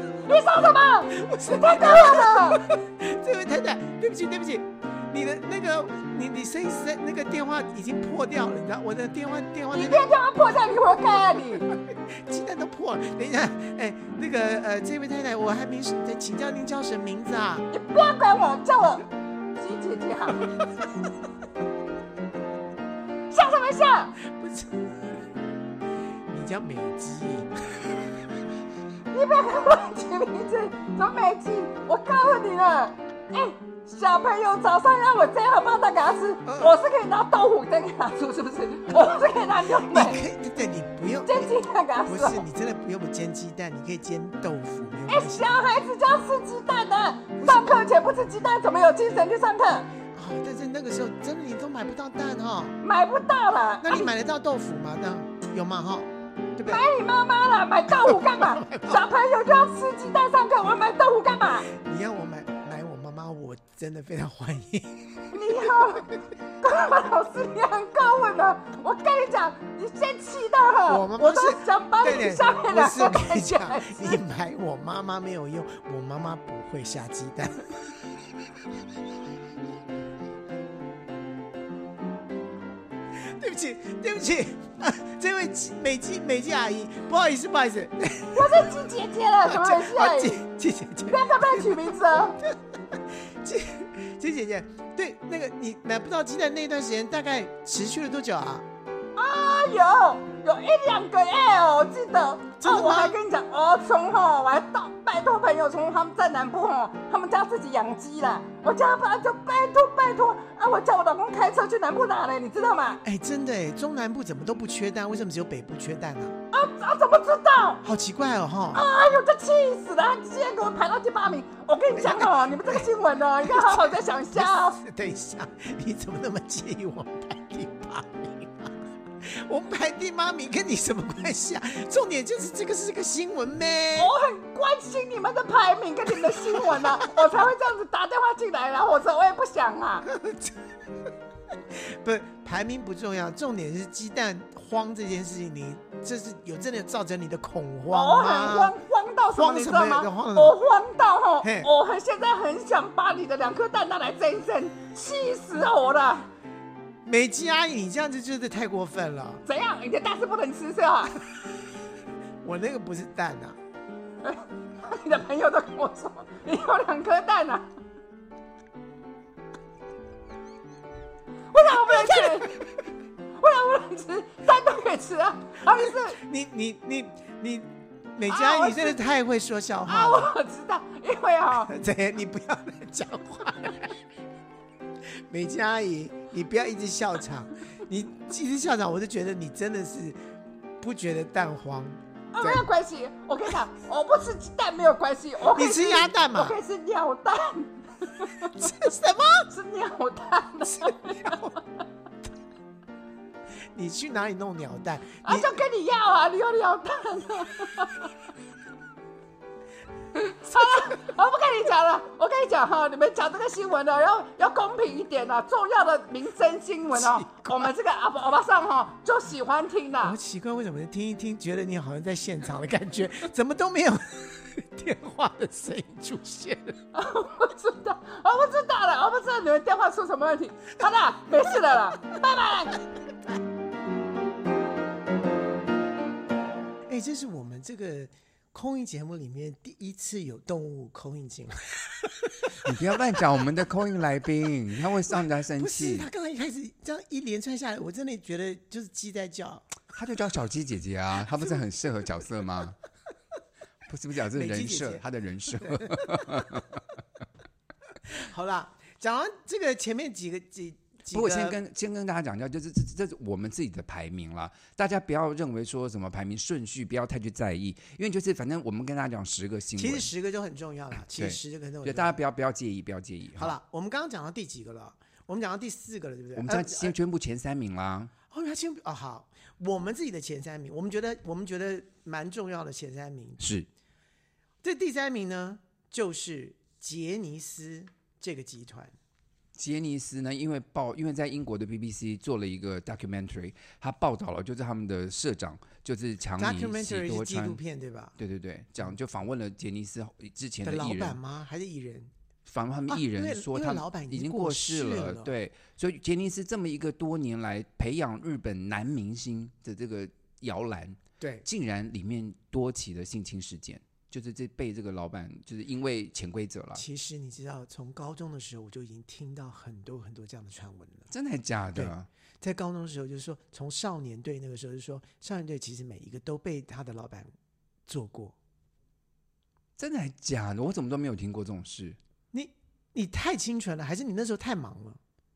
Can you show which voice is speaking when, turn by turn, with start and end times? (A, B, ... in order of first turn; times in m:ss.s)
0:00.3-0:02.6 A
0:01.1-0:10.1 B
0:09.7-0:11.7 A
0:11.7-0:17.7 B
0:17.7-0:20.5 A
0:23.3-0:24.2 A
0:24.2-0:25.1 B
0:26.3-0:27.8 B
0:29.1-0:40.2 A
0:36.4-0:36.8 B
0:39.8-0:45.6 B
0:41.2-0:42.4 A
0:45.1-0:49.9 A
0:47.4-0:47.8 B
0:50.2-0:52.8 B
0:52.8-0:54.1 A
0:53.8-0:56.8 B
0:56.7-1:01.7 A
0:58.0-0:59.0 B
1:01.7-1:05.7 B
1:05.3-1:14.2 A
1:10.9-1:17.7 B
1:23.2-1:28.7 B
1:28.4-1:30.4 A
1:29.5-1:38.7 B
1:31.1-1:32.4 A
1:39.2-1:53.0 A
1:42.6-1:43.2 B
1:53.0-1:56.4 B
1:56.5-1:57.8 A
1:57.8-1:58.9 B
1:58.7-2:04.8 A
2:02.0-2:02.9 B
2:03.4-2:14.1 B
2:14.0-2:20.1 A
2:16.6-2:17.1 B
2:20.0-2:20.6 B
2:21.7-2:28.8 B
2:27.9-2:36.3 A
2:29.3-2:30.6 B
2:31.4-2:31.7 B
2:37.1-2:39.4 B
2:39.5-2:41.2 A
2:42.4-2:43.6 B
2:44.2-2:47.7 A
2:51.5-2:52.6 A
2:51.8-2:52.5 B
2:53.4-2:56.2 A
2:55.7-3:00.3 B
2:58.3-2:59.0 A
2:59.9-3:01.7 A
3:01.6-3:04.0 B
3:05.2-3:10.2 B
3:10.8-3:12.7 B
3:12.4-3:18.8 A
3:15.5-3:16.6 B
3:18.6-3:19.5 B
3:19.5-3:21.6 A
3:20.7-3:21.6 B
3:23.7-3:25.6 B
3:25.2-3:28.1 A
3:30.2-3:40.2 A
3:36.9-3:37.7 B
3:40.0-3:46.8 B
3:46.9-3:52.8 A
3:56.9-4:02.7 B
4:02.5-4:06.1 C
4:05.5-4:09.8 B
4:09.9-4:12.8 C
4:13.9-4:16.9 C
4:14.3-4:15.0 B
4:15.6-4:16.6 B
4:18.1-4:21.6 B
4:21.1-4:30.1 C
4:29.8-4:32.2 B
4:31.1-4:33.6 C
4:33.4-4:37.0 B
4:36.4-4:38.1 C
4:38.3-4:43.4 B
4:43.4-4:43.7 C
4:44.6-4:48.9 B
4:49.6-4:57.6 C
4:56.4-4:58.2 B
4:58.2-5:01.2 C
5:00.6-5:02.1 B
5:02.5-5:16.8 C
5:02.9-5:05.3 B
5:11.2-5:11.4 B
5:16.8-5:21.1 B
5:21.1-5:22.1 C
5:21.7-5:27.3 B
5:27.9-5:28.4 B
5:29.8-5:32.0 C
5:32.3-5:35.0 B